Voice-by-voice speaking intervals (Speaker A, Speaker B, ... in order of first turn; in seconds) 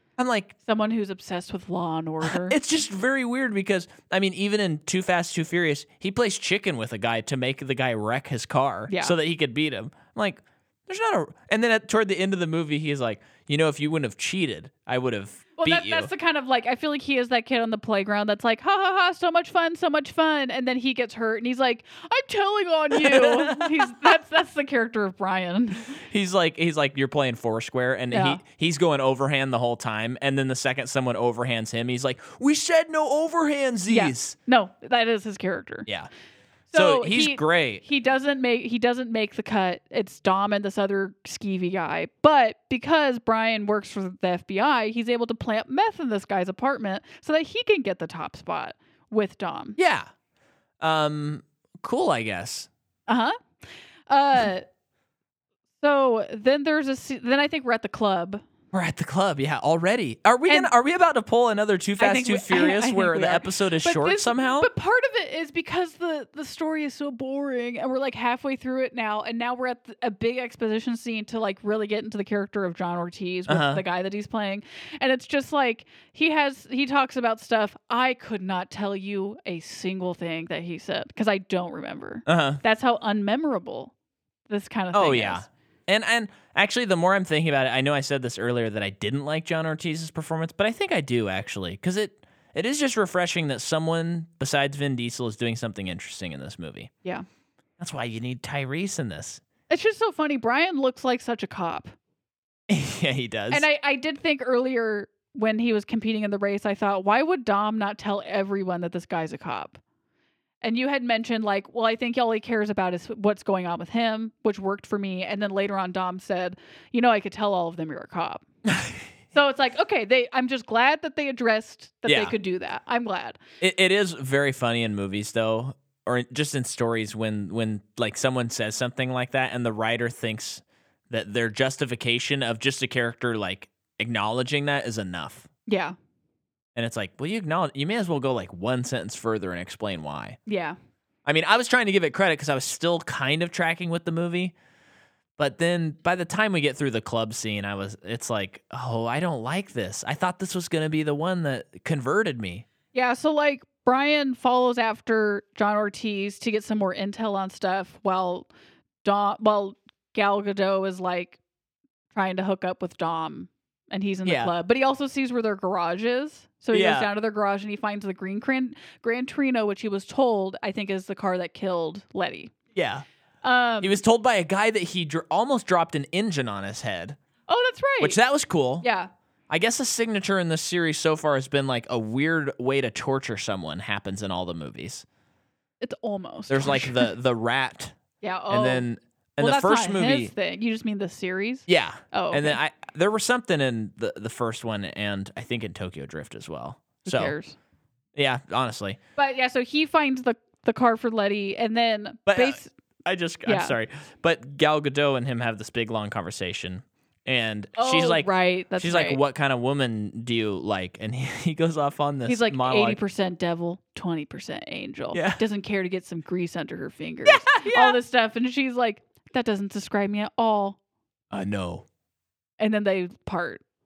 Speaker A: 0.2-0.5, 2.2-16.1, 22.9-24.1, 25.9-34.4, 36.7-37.8, 49.8-50.1, 50.8-52.7, 58.7-64.7, 73.5-73.8, 82.3-82.6, 84.9-96.9, 97.8-99.4, 102.7-103.6, 118.7-119.0, 122.0-122.3, 123.6-135.5, 136.8-140.4, 141.2-144.5, 145.4-152.6, 164.2-164.5, 166.7-167.1, 172.7-173.1, 173.8-177.2, 178.0-178.8, 179.5-185.0, 186.5-187.9, 188.5-190.3, 191.7-197.3, 198.1-199.0, 202.3-213.0, 215.1-215.4, 217.3-218.0, 221.3-221.8
Speaker B: 0.6-2.6, 8.9-9.1, 15.6-26.0, 28.1-28.4, 33.9-35.9, 36.7-49.8, 53.1-53.4, 54.1-54.6, 55.8-58.4, 60.5-60.7, 62.0-83.9, 84.5-85.4, 99.7-101.9, 103.5-109.8, 110.6-118.5, 119.3-123.4, 135.7-135.9, 140.5-140.8, 152.9-158.5, 159.0-161.4, 162.1-172.5, 173.4-174.0, 177.5-178.2, 178.8-179.1, 185.8-187.1, 188.2-188.8, 189.4-192.6, 197.0-197.6, 199.2-202.7, 203.4-203.7, 207.8-209.2, 212.2-220.8, 222.6-223.6